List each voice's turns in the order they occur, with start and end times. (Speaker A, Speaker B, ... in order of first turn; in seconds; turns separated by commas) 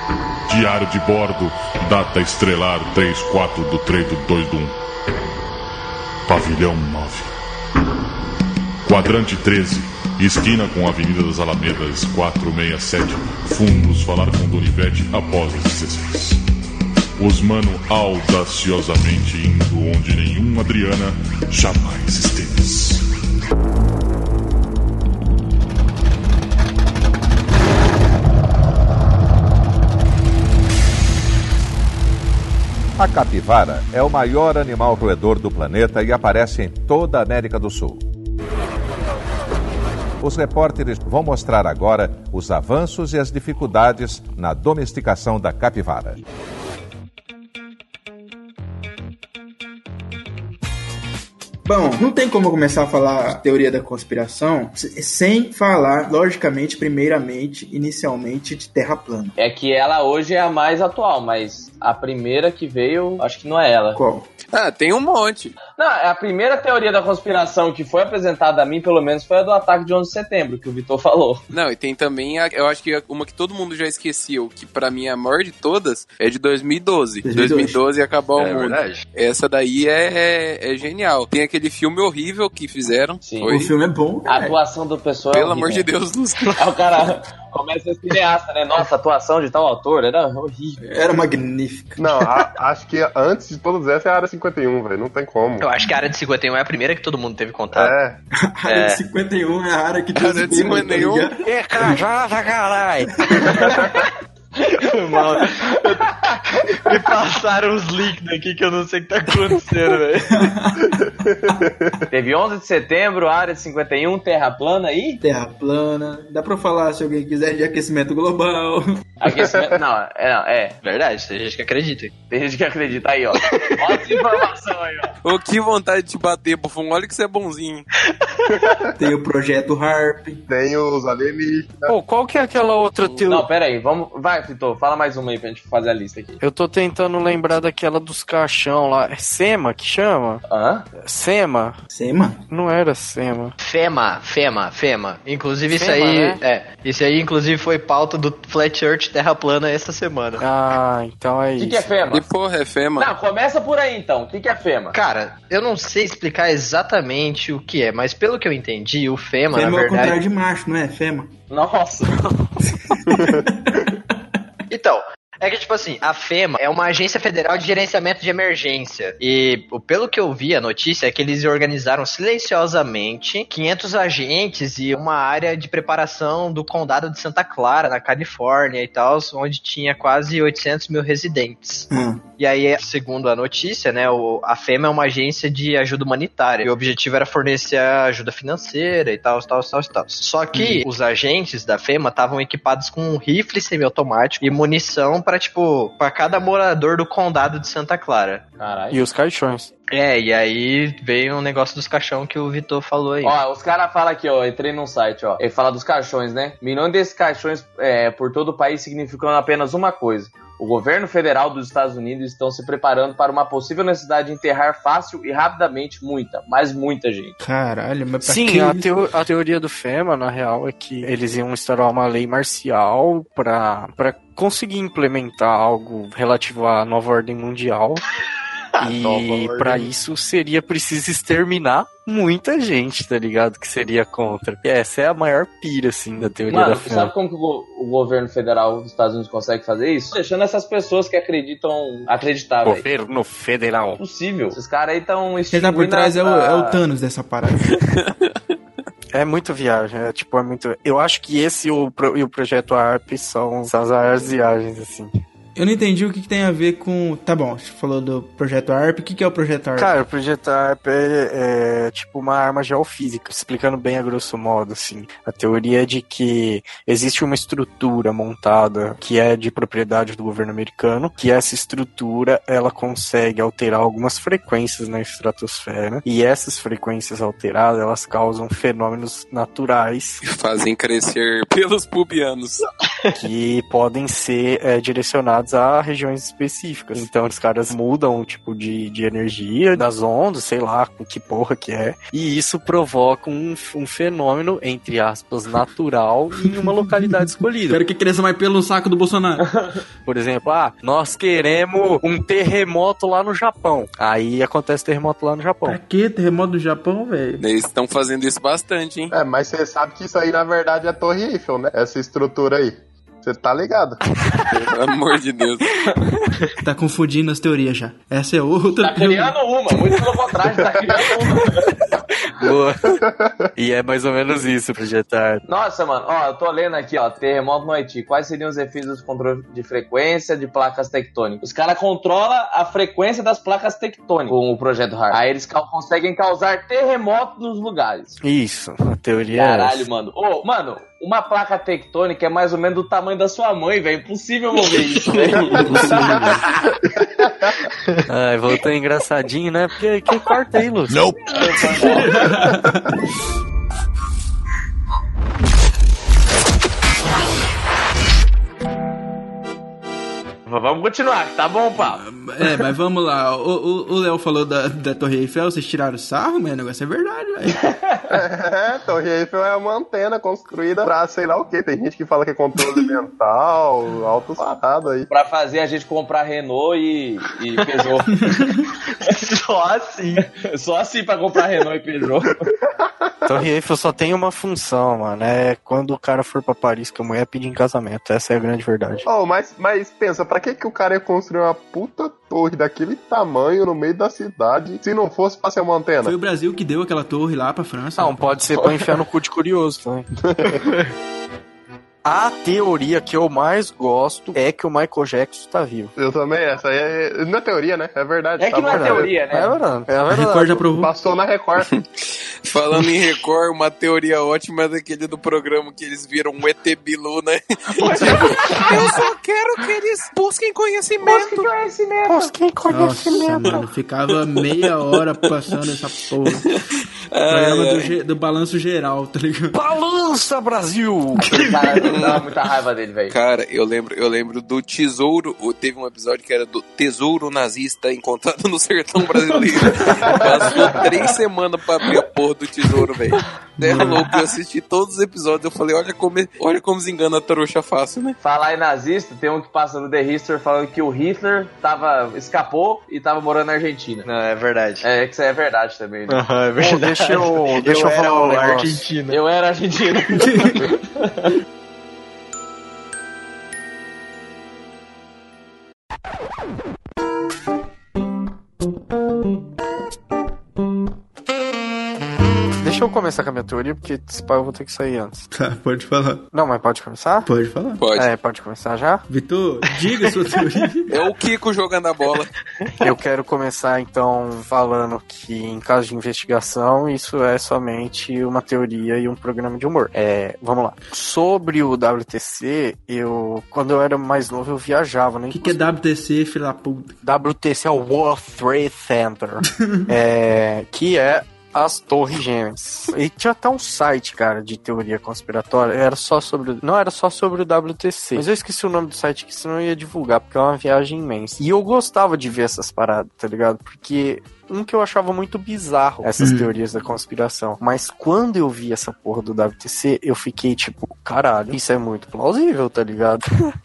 Speaker A: 0.5-4.8, Speaker A: 6.3-7.3, Speaker A: 8.9-16.4, Speaker A: 17.2-23.1, Speaker B: 33.0-38.0, Speaker B: 40.2-46.2, Speaker C: 51.6-59.3, Speaker D: 59.4-64.0, Speaker C: 64.0-64.3, Speaker E: 64.5-65.6, Speaker D: 65.8-71.4, Speaker E: 71.5-83.7, Speaker C: 77.2-77.8, Speaker F: 78.3-79.0, Speaker D: 83.2-83.6, Speaker C: 83.4-84.5, Speaker D: 84.2-85.9, Speaker E: 85.3-86.6, Speaker D: 86.6-90.8, Speaker C: 90.8-92.2, Speaker G: 92.0-95.7, Speaker F: 95.6-97.9, Speaker G: 97.7-98.2, Speaker C: 98.4-102.0, Speaker F: 98.7-99.0, Speaker E: 100.2-101.3, Speaker H: 101.5-103.1, Speaker C: 103.1-104.0, Speaker F: 103.4-104.0, Speaker F: 104.6-110.5, Speaker C: 110.3-111.0, Speaker G: 111.2-112.0, Speaker D: 112.1-115.2, Speaker C: 115.2-119.1, Speaker D: 119.2-120.8, Speaker F: 120.8-122.1, Speaker D: 122.3-125.1, Speaker F: 123.4-124.2, Speaker E: 125.2-127.9, Speaker F: 128.2-128.8, Speaker C: 129.0-130.4, Speaker G: 130.5-131.9, Speaker H: 131.9-133.5, Speaker D: 133.3-136.4, Speaker H: 136.4-140.4, Speaker D: 140.5-140.8, Speaker H: 141.0-141.8, Speaker C: 141.9-142.4, Speaker H: 142.5-143.5, Speaker F: 143.6-150.5, Speaker H: 145.7-146.4, Speaker H: 150.4-151.9, Speaker D: 151.6-152.2, Speaker E: 152.1-153.1, Speaker D: 153.0-155.0, Speaker F: 154.9-160.2, Speaker C: 159.5-161.3, Speaker D: 161.5-162.2, Speaker C: 162.9-164.0, Speaker G: 163.1-163.4, Speaker F: 164.7-198.4, Speaker C: 181.9-182.2, Speaker C: 190.6-190.8, Speaker D: 198.6-199.0, Speaker H: 198.9-199.7, Speaker F: 199.9-203.4, Speaker D: 203.2-217.3, Speaker C: 217.4-218.9, Speaker H: 218.2-228.0, Speaker H: 228.8-237.1, Speaker D: 236.5-242.8, Speaker H: 242.6-244.0, Speaker D: 244.0-246.8, Speaker C: 245.5-247.8, Speaker E: 247.8-248.4, Speaker H: 249.1-255.1, Speaker C: 255.6-260.0, Speaker H: 259.8-280.2, Speaker E: 280.2-282.7, Speaker H: 283.1-297.8, Speaker C: 296.4-299.7, Speaker H: 300.1-305.8, Speaker C: 305.6-307.4, Speaker E: 307.4-309.1, Speaker G: 309.1-314.0, Speaker E: 314.5-315.8, Speaker C: 316.6-319.4, Speaker D: 318.8-321.6, Speaker H: 322.4-323.0, Speaker G: 323.0-323.4, Speaker H: 323.6-325.4, Speaker D: 325.5-338.2, Speaker H: 338.2-339.9, Speaker D: 339.3-346.2, Speaker H: 345.6-346.4, Speaker H: 348.1-351.2, Speaker D: 351.3-352.4, Speaker C: 351.9-353.0, Speaker D: 360.5-362.1, Speaker C: 361.8-367.7, Speaker G: 368.1-375.1, Speaker D: 375.1-378.1, Speaker C: 378.1-378.7, Speaker F: 378.9-380.3, Speaker D: 380.3-382.4, Speaker H: 383.3-389.1, Speaker G: 389.1-396.1, Speaker C: 396.0-398.4, Speaker H: 398.0-400.1, Speaker H: 402.1-405.9, Speaker G: 406.0-409.1, Speaker D: 408.4-409.6, Speaker H: 408.7-410.6, Speaker C: 410.1-410.9, Speaker G: 410.8-411.7, Speaker E: 411.7-421.5, Speaker D: 417.7-418.8, Speaker D: 421.0-422.3, Speaker H: 422.1-423.6, Speaker C: 422.7-426.5, Speaker E: 424.4-424.9, Speaker E: 426.3-426.6, Speaker E: 427.1-427.9, Speaker C: 427.3-429.6, Speaker H: 429.5-431.4, Speaker D: 431.4-433.1, Speaker E: 431.8-432.2, Speaker E: 433.1-448.2, Speaker D: 440.5-440.8, Speaker C: 443.6-443.9, Speaker D: 448.2-454.1, Speaker F: 454.1-454.9, Speaker D: 454.8-456.2, Speaker H: 456.1-458.8, Speaker F: 456.6-459.2, Speaker D: 459.1-461.3, Speaker C: 460.2-460.6, Speaker H: 472.6-475.2, Speaker C: 475.3-476.2, Speaker H: 476.3-477.3, Speaker C: 477.3-477.8, Speaker E: 477.8-478.1, Speaker H: 477.9-479.0, Speaker C: 479.1-480.9, Speaker E: 480.9-482.3, Speaker H: 482.8-495.6, Speaker C: 495.3-497.0, Speaker H: 497.0-523.5, Speaker C: 499.5-499.9, Speaker C: 516.2-516.5